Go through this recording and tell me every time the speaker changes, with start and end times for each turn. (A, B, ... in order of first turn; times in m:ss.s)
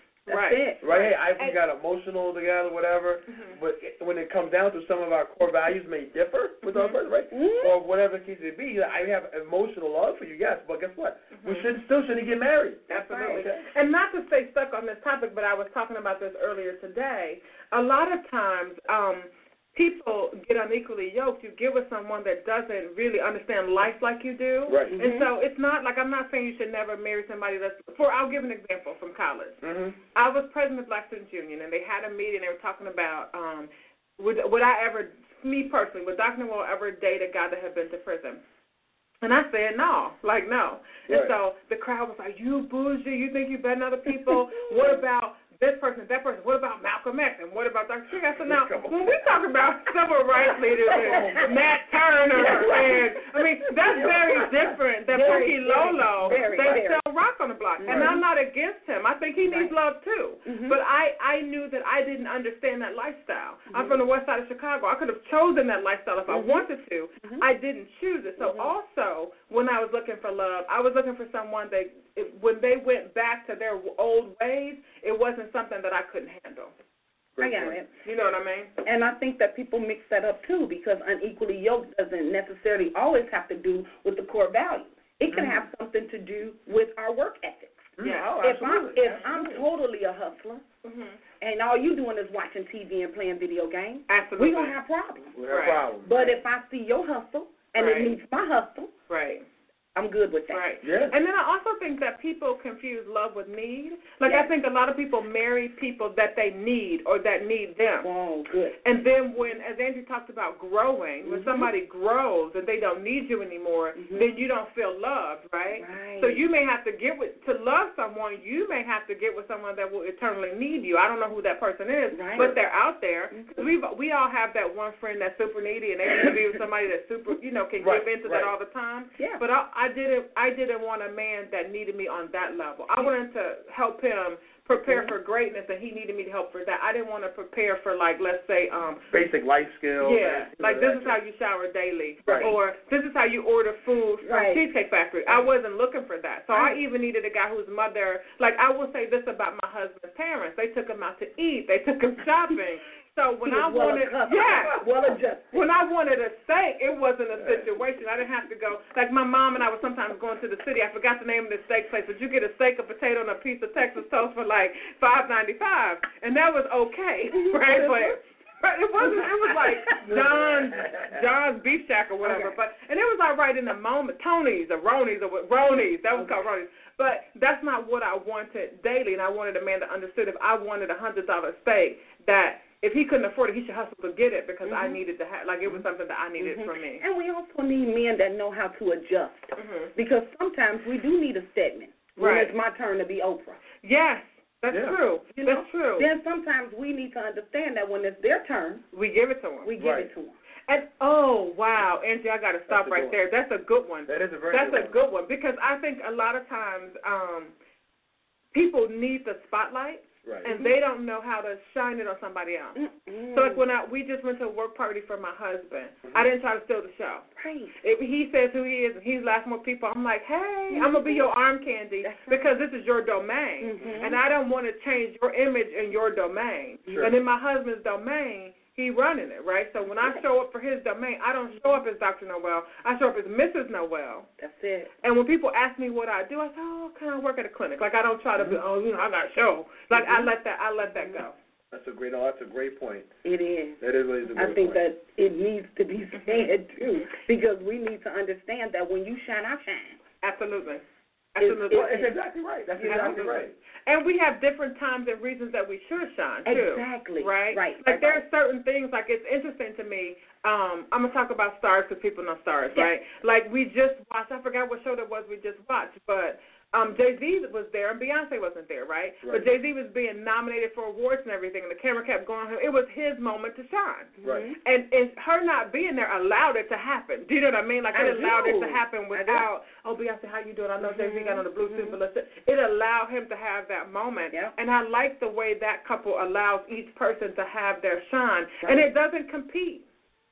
0:00.3-0:00.8 A
0:00.3-0:01.6 B
0:00.8-0:13.7 C
0:03.3-0:03.6 B
0:06.6-0:07.0 B
0:07.3-0:07.8 A
0:11.3-0:11.7 B
0:12.9-0:29.6 B
0:12.9-0:13.4 A
0:24.7-0:24.9 C
0:24.9-0:25.3 A
0:29.6-0:30.0 C
0:30.2-0:38.4 B
0:39.2-1:16.7 B
0:41.1-0:41.3 C
0:44.7-0:45.0 A
0:48.4-0:49.2 C
0:50.9-0:51.5 C
0:50.9-0:51.4 A
0:52.4-0:53.0 A
0:52.4-0:53.1 C
0:53.9-0:55.5 C
0:55.1-0:57.0 A
0:56.2-0:56.8 C
0:57.8-0:58.2 A
0:57.9-0:58.2 C
0:59.4-0:59.7 A
1:00.4-1:00.8 A
1:03.7-1:04.0 A
1:06.3-1:06.7 A
1:08.4-1:08.7 A
1:17.4-1:17.8 C
1:17.4-1:17.9 A
1:18.0-1:18.7 B
1:18.8-1:30.6 A
1:25.3-1:25.6 C
1:28.0-1:29.7 C
1:28.0-1:28.3 B
1:30.8-1:31.2 B
1:31.4-1:35.4 A
1:34.1-1:34.8 B
1:35.4-1:36.4 C
1:35.5-1:35.8 B
1:36.0-1:38.9 A
1:37.8-1:38.2 B
1:39.1-1:39.4 B
1:40.0-1:40.7 A
1:40.5-1:48.1 B
1:40.8-1:41.2 C
1:44.2-1:44.5 A
1:48.0-1:48.8 A
1:48.8-2:19.0 B
1:51.2-1:51.7 A
1:54.0-1:54.3 A
1:55.8-1:56.4 A
2:02.1-2:02.5 A
2:03.3-2:03.6 A
2:07.8-2:08.5 C
2:14.9-2:15.1 A
2:19.1-2:21.2 C
2:20.0-2:34.9 B
2:22.2-2:22.5 C
2:22.3-2:22.6 A
2:24.2-2:24.6 A
2:26.5-2:26.8 A
2:33.4-2:35.6 A
2:35.5-3:07.0 B
2:37.3-2:37.8 C
2:47.3-2:48.2 A
2:49.0-2:50.0 A
2:50.0-2:51.2 C
2:52.2-2:52.6 A
2:56.2-2:56.4 A
3:04.6-3:05.0 A
3:06.4-3:13.6 A
3:09.6-3:09.9 B
3:12.2-3:12.6 B
3:13.8-3:16.1 B
3:14.7-3:15.0 C
3:15.3-3:18.8 A
3:18.9-3:19.7 B
3:19.6-3:20.4 A
3:19.8-3:20.1 C
3:20.7-3:27.5 B
3:22.7-3:23.2 C
3:24.1-3:25.0 C
3:28.5-3:32.8 B
3:30.5-3:30.7 A
3:32.8-3:33.6 A
3:33.3-3:37.3 B
3:37.4-3:37.8 A
3:37.8-3:54.3 B
3:40.7-3:41.3 A
3:42.0-3:42.6 A
3:43.6-3:44.2 A
3:54.4-3:54.9 A
3:55.0-4:01.4 B
3:59.9-4:00.3 A
4:00.9-4:01.2 A
4:01.7-4:03.1 C
4:03.2-4:03.8 A
4:03.8-4:04.8 C
4:04.3-4:10.0 A
4:06.1-4:07.1 B
4:10.2-4:10.8 B
4:11.4-4:12.0 B
4:11.4-4:12.1 A
4:11.7-4:13.6 C
4:12.8-4:13.4 A
4:12.9-4:49.9 B
4:16.5-4:18.2 A
4:34.2-4:34.6 A
4:34.2-4:34.5 C
4:37.9-4:39.4 A
4:40.8-4:42.0 A